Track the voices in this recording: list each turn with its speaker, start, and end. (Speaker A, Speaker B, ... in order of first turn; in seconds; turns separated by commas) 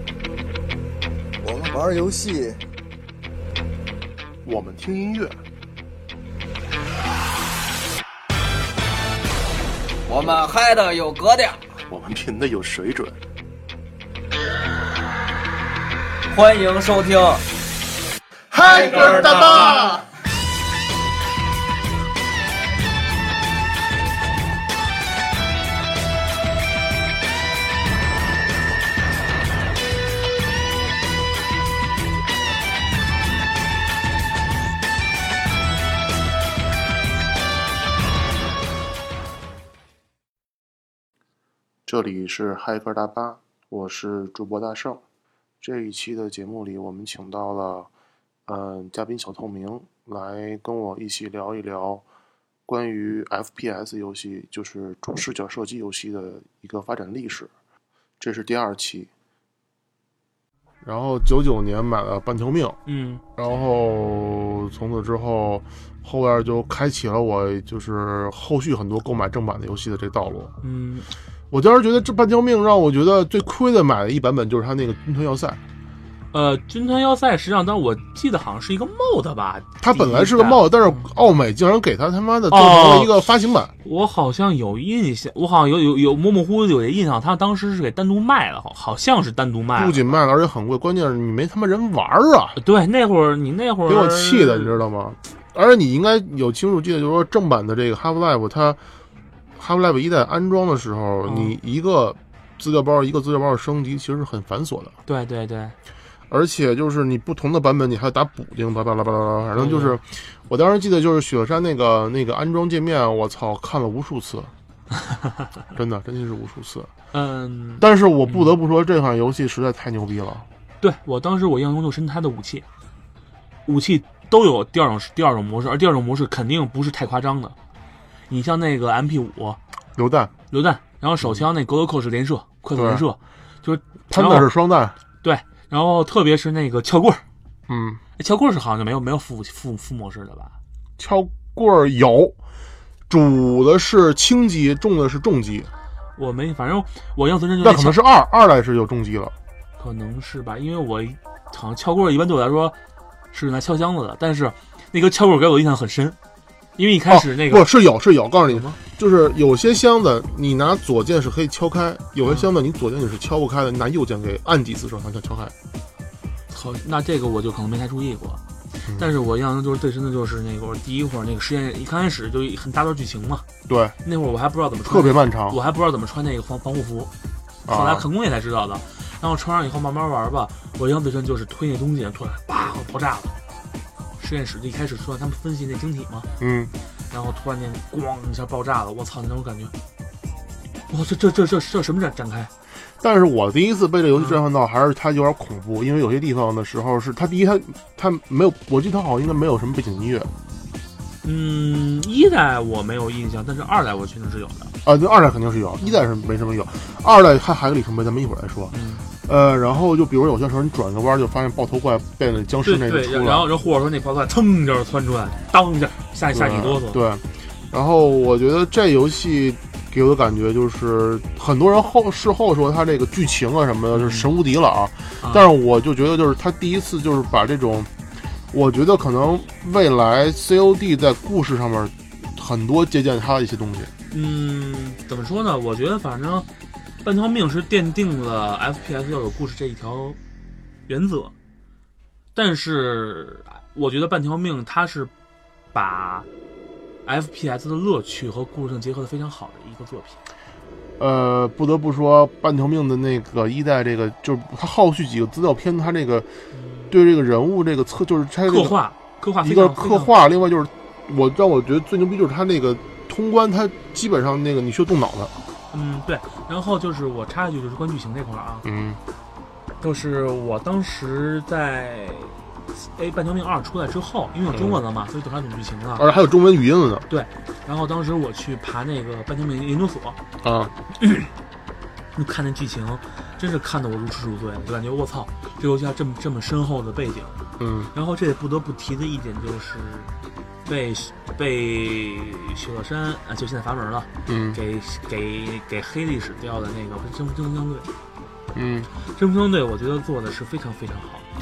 Speaker A: 1.4-2.6, Speaker B: 4.4-5.3, Speaker A: 10.1-11.6, Speaker B: 11.9-13.2, Speaker A: 16.3-17.4, Speaker A: 18.5-20.0, Speaker B: 18.9-20.0, Speaker B: 41.9-45.0, Speaker B: 45.6-47.9, Speaker B: 48.5-52.0, Speaker B: 52.7-57.5, Speaker B: 58.2-59.1, Speaker B: 60.8-62.8, Speaker C: 62.9-63.2, Speaker B: 63.4-70.5, Speaker C: 70.6-71.1, Speaker B: 71.5-75.6, Speaker C: 76.3-81.1, Speaker B: 79.8-83.7, Speaker C: 82.5-83.1, Speaker C: 83.8-90.1, Speaker B: 89.8-92.6, Speaker C: 92.6-94.7, Speaker B: 93.9-98.8, Speaker B: 99.6-104.9, Speaker C: 101.2-101.5, Speaker C: 105.0-105.7, Speaker B: 106.3-114.5, Speaker C: 109.5-110.0, Speaker B: 115.7-116.9, Speaker C: 117.1-118.5, Speaker B: 117.8-120.5, Speaker C: 120.8-122.6, Speaker C: 123.7-127.5, Speaker C: 128.3-129.6, Speaker B: 129.9-130.3, Speaker C: 130.5-134.5, Speaker B: 132.7-133.0, Speaker B: 134.1-134.9, Speaker C: 135.2-137.2, Speaker B: 137.7-138.0, Speaker C: 138.2-140.5, Speaker B: 141.0-142.3, Speaker B: 143.1-145.7, Speaker C: 146.2-148.0, Speaker B: 147.6-149.3, Speaker C: 149.8-152.8, Speaker C: 153.3-156.2, Speaker C: 156.8-157.7, Speaker B: 157.1-165.5, Speaker C: 158.5-158.8, Speaker C: 166.5-168.4, Speaker C: 169.0-173.4, Speaker B: 173.7-173.9, Speaker C: 174.0-177.1, Speaker B: 174.8-175.6, Speaker B: 177.7-178.1, Speaker C: 177.7-183.3, Speaker C: 184.2-186.3, Speaker B: 186.4-186.7, Speaker C: 187.1-189.7, Speaker C: 190.9-192.5, Speaker B: 193.0-200.3, Speaker C: 194.1-194.4, Speaker C: 201.2-204.7, Speaker B: 204.8-208.7, Speaker C: 208.7-209.1, Speaker B: 209.2-213.5, Speaker C: 212.6-217.0, Speaker B: 216.3-227.9, Speaker C: 223.9-224.3, Speaker C: 225.2-225.5, Speaker B: 228.5-233.9, Speaker C: 234.1-236.5, Speaker C: 237.0-240.2, Speaker C: 240.9-241.3, Speaker C: 242.3-245.1, Speaker C: 245.7-246.3, Speaker C: 247.0-250.2, Speaker B: 251.0-256.3, Speaker C: 256.5-256.9, Speaker B: 256.9-258.8, Speaker C: 258.5-260.2, Speaker B: 259.4-265.3, Speaker C: 265.7-268.6, Speaker B: 268.6-269.0, Speaker C: 269.8-276.0, Speaker B: 274.5-274.8, Speaker B: 276.0-277.1, Speaker C: 277.1-280.2, Speaker B: 280.4-280.7, Speaker C: 281.0-281.3, Speaker C: 282.1-287.4, Speaker B: 287.6-287.9, Speaker C: 287.9-290.1, Speaker C: 290.6-297.9, Speaker B: 294.2-294.6, Speaker B: 298.5-298.9, Speaker C: 299.1-301.3